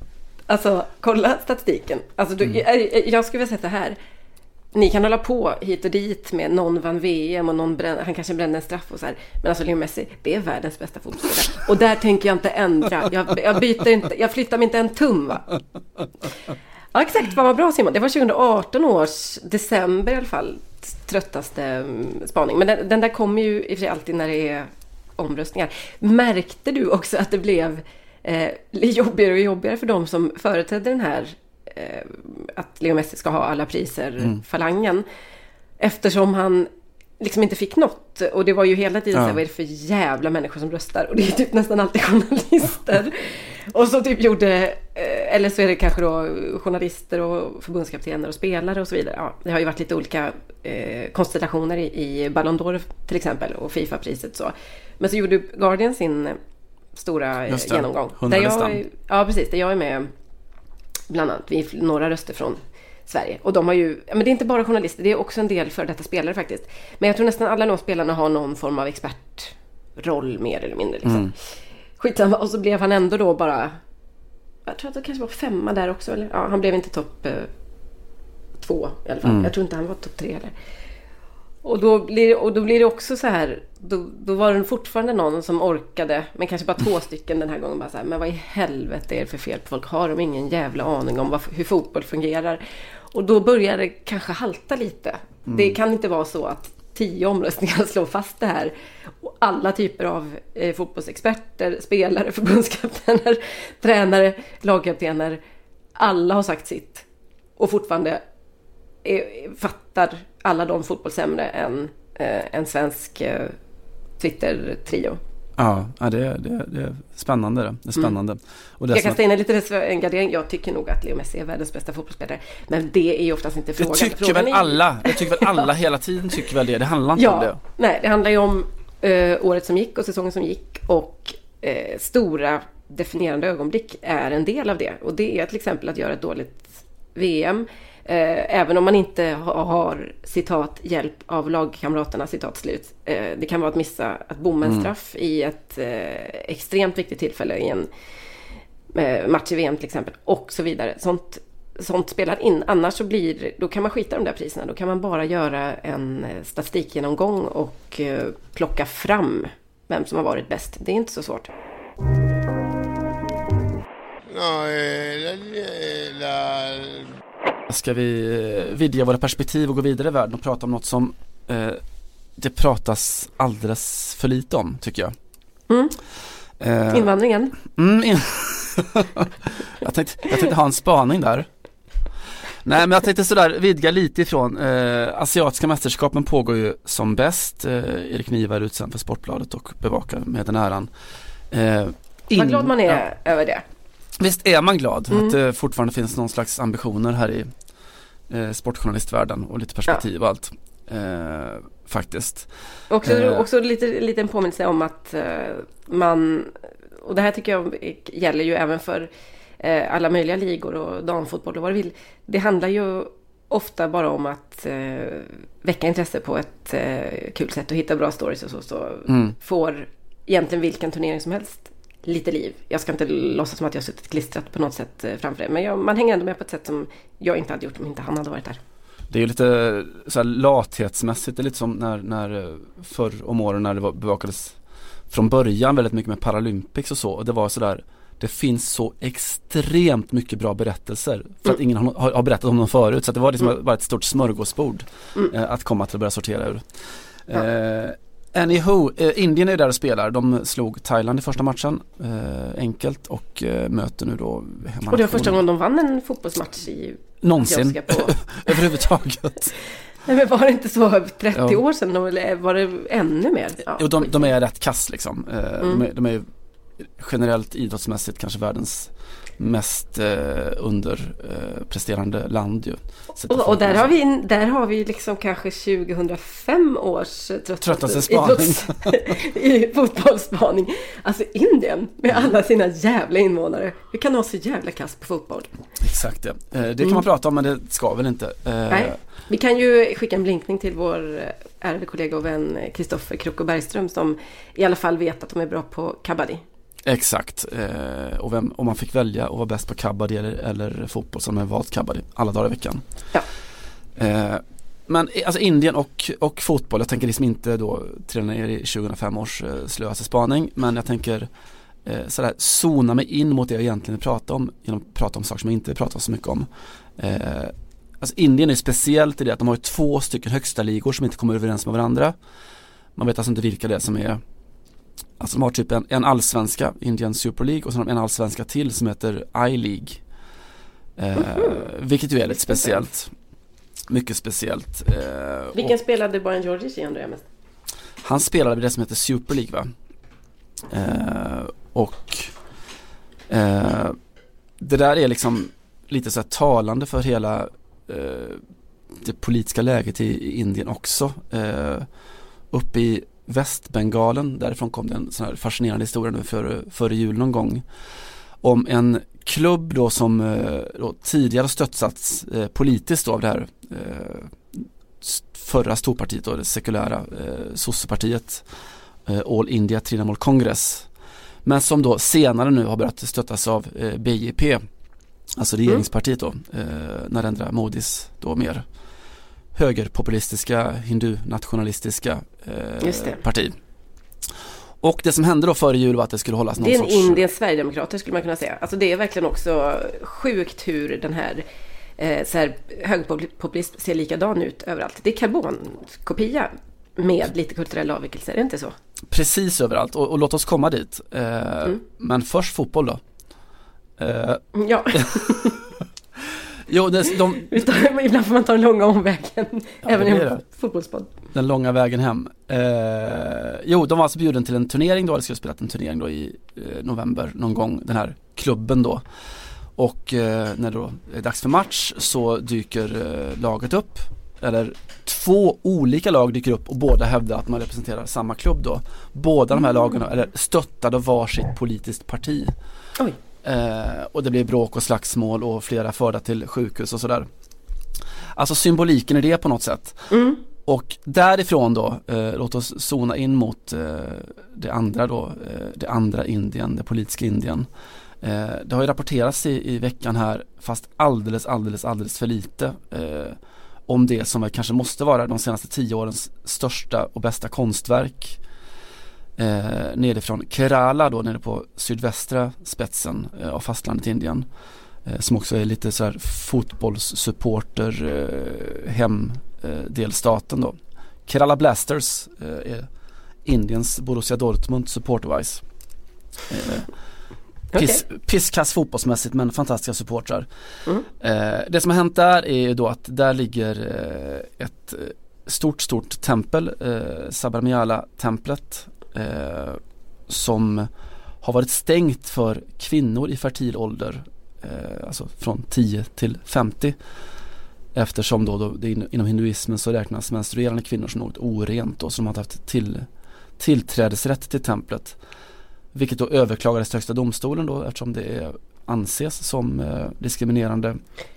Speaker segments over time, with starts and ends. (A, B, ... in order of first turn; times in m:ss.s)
0:00.5-0:04.0 A
0:04.7-0:15.6 A
0:16.9-0:35.0 A
0:35.8-0:56.4 A
0:39.1-0:39.4 B
0:57.0-1:00.1 A
0:57.5-0:58.8 B
1:01.1-1:11.3 A
1:11.0-1:11.3 B
1:12.0-1:13.8 A
1:14.6-1:17.5 A
1:18.6-1:20.5 A
1:19.2-1:19.5 B
1:21.6-1:45.4 A
1:35.5-1:35.8 B
1:46.0-1:47.0 A
1:47.6-1:48.2 A
1:49.0-1:53.6 A
1:54.2-1:55.2 A
1:55.6-1:59.2 B
1:58.9-2:05.7 A
2:03.8-2:07.6 B
2:07.2-2:27.9 A
2:28.9-2:41.5 A
2:47.7-2:51.8 B
2:52.4-2:55.1 B
2:55.7-2:56.0 A
2:56.6-2:57.1 B
2:56.9-2:57.6 A
2:57.6-3:01.5 B
3:02.6-3:10.9 B
3:11.5-3:13.0 B
3:12.3-3:13.6 A
3:14.2-3:17.5 B
3:18.3-3:22.5 B
3:22.9-3:48.6 A
3:23.0-3:23.4 B
3:39.1-3:39.3 B
3:49.1-3:54.6 B
3:55.1-4:06.6 B
4:07.3-4:15.4 B
4:14.9-4:18.6 A
4:17.2-4:19.6 B
4:20.0-4:24.3 A
4:21.3-4:21.6 B
4:23.7-4:26.3 B
4:26.8-4:33.9 B
4:33.3-4:45.5 A
4:37.6-4:39.0 B
4:45.8-4:49.0 B
4:48.7-4:56.4 A
4:56.8-5:02.8 B
5:04.0-5:11.3 B
5:11.8-5:22.1 B
5:23.0-5:24.2 B
5:25.2-5:30.0 B
5:31.0-5:33.1 B
5:31.2-5:31.6 A
5:32.3-5:32.8 A
5:33.9-5:35.8 B
5:35.6-5:37.3 A
5:38.0-5:39.7 B
5:40.7-5:42.3 B
5:43.3-5:44.0 B
5:44.6-5:48.4 B
5:49.0-5:51.9 B
5:52.5-5:57.6 B
5:58.4-6:08.4 B
6:09.0-6:10.9 B
6:11.4-6:14.6 B
6:15.4-6:18.6 B
6:19.6-6:23.6 B
6:22.8-6:23.2 A
6:24.8-6:27.2 B
6:26.6-6:31.4 A
6:32.0-6:38.7 A
6:39.1-6:43.0 B
6:44.0-6:45.4 B
6:44.6-6:45.6 A
6:46.7-6:47.6 B
6:47.3-6:51.1 A
6:49.8-6:50.4 B
6:51.3-6:59.0 B
6:59.8-7:12.5 B
7:13.4-7:17.3 B
7:18.4-7:20.1 B
7:20.1-7:20.4 A
7:20.6-7:27.7 B
7:28.2-7:38.4 B
7:39.4-7:44.5 B
7:45.0-7:52.9 B
7:53.4-7:55.6 B
7:56.5-7:56.9 B
7:57.7-7:58.0 A
7:57.7-8:00.5 B
8:01.2-8:10.9 B
8:11.4-8:17.0 B
8:17.9-8:23.0 B
8:23.6-8:25.2 B
8:25.9-8:31.0 B